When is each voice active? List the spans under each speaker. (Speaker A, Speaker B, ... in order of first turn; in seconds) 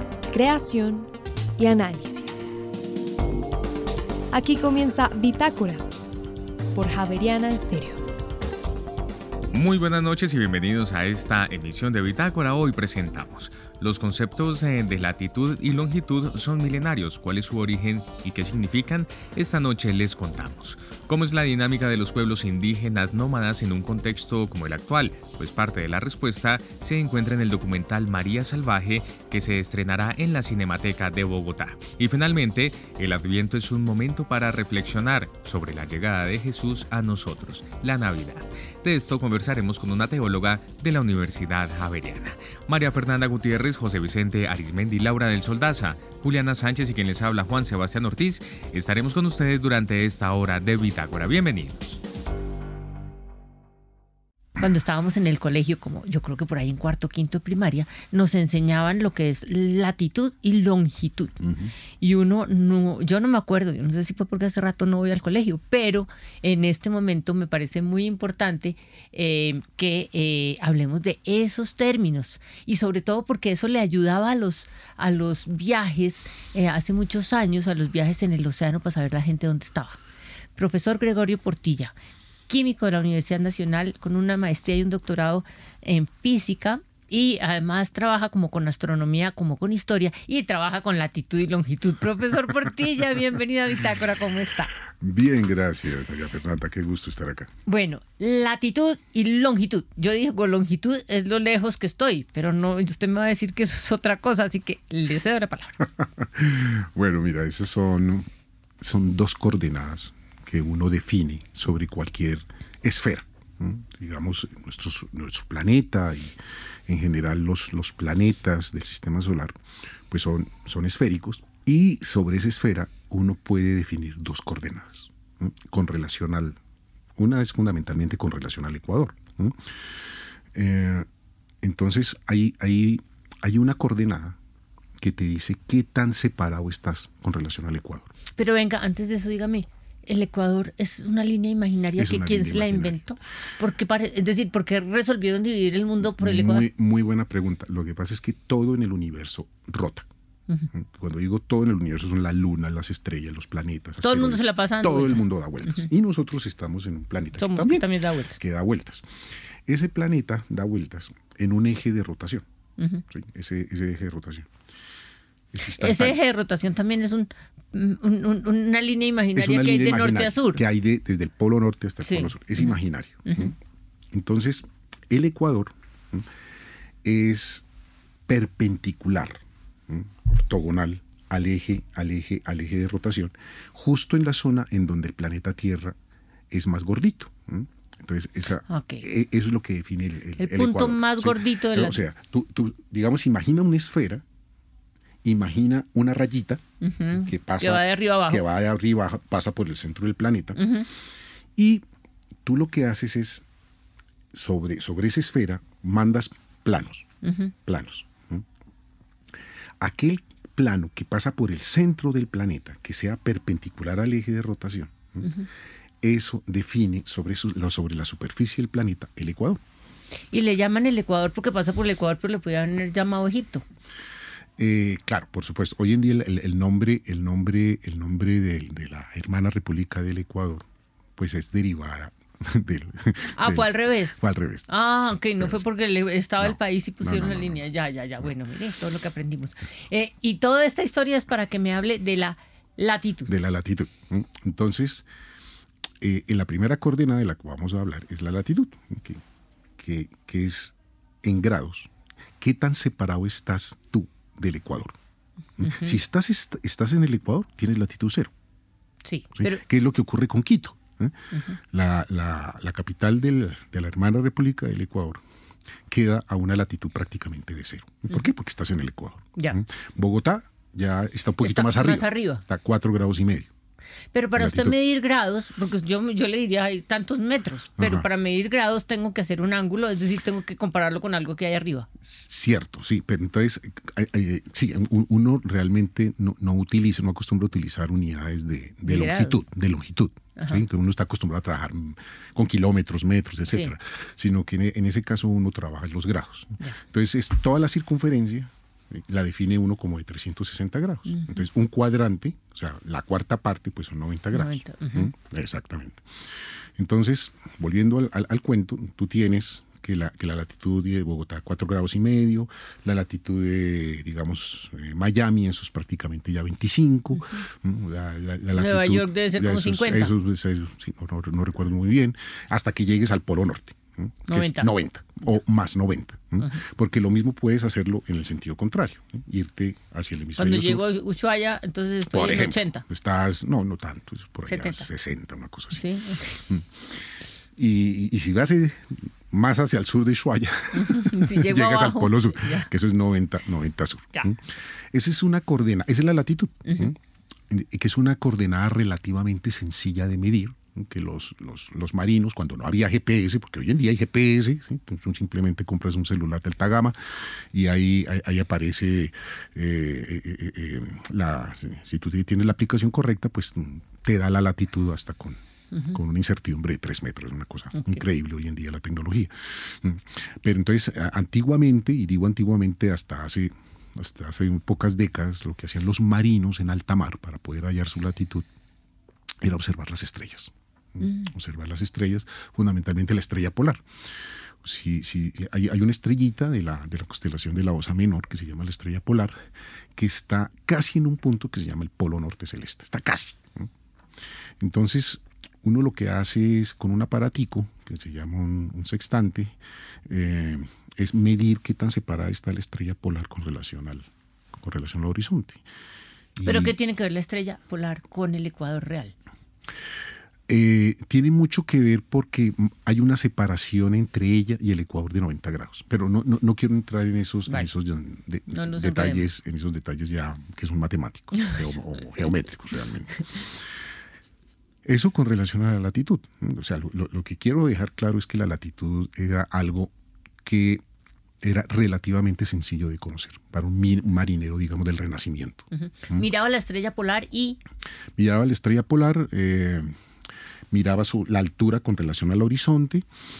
Speaker A: 0.3-2.4, 4.3-5.9, 6.7-8.1
Speaker B: 9.5-52.0
Speaker C: 54.6-61.4, 62.0-80.0, 80.6-82.0, 82.5-94.7, 97.7-105.8, 138.4-146.7, 154.0-155.9, 157.4-158.4, 162.8-163.0, 165.8-170.6, 172.0-173.5, 188.7-189.0, 190.4-192.0, 196.8-198.4, 200.6-200.9, 207.2-207.5, 215.2-215.5, 220.3-223.7, 233.4-243.3, 255.6-256.0, 259.1-259.6, 261.3-261.6, 271.4-272.4, 274.1-281.9, 288.9-289.4, 290.4-290.6, 301.1-301.4, 304.3-305.1, 317.1-317.4, 318.5-320.1, 324.3-324.7, 330.4-332.8, 334.5-334.9, 335.7-336.4, 340.7-342.7, 346.7-346.9, 365.7-366.0, 367.7-368.0, 381.0-381.3, 406.4-409.1, 418.5-419.2, 435.7-437.6
Speaker D: 61.4-61.7, 95.0-97.5, 105.8-108.3, 108.8-126.6, 127.2-129.7, 130.5-131.1, 131.6-134.4, 135.0-138.1, 142.0-143.0, 146.0-150.1, 150.7-162.5, 163.1-164.5, 165.5-166.2, 169.3-173.6, 174.1-176.3, 177.0-177.7, 178.3-186.0, 186.5-194.2, 195.2-200.7, 201.6-201.8, 202.4-203.5, 204.3-207.1, 207.7-208.4, 209.8-215.3, 216.0-219.6, 224.6-235.7, 236.4-237.6, 243.3-245.1, 246.0-249.2, 249.8-254.9, 255.6-258.3, 259.4-265.2, 265.9-273.5, 274.4-274.8, 277.8-278.1, 282.0-306.1, 306.8-330.9, 332.1-347.0, 347.5-365.4, 365.9-378.5, 379.4-393.7, 394.6-405.6, 406.4-406.8, 410.5-423.7, 424.9-429.9, 430.4-430.8, 431.4-436.3, 438.2-439.9, 440.7-443.1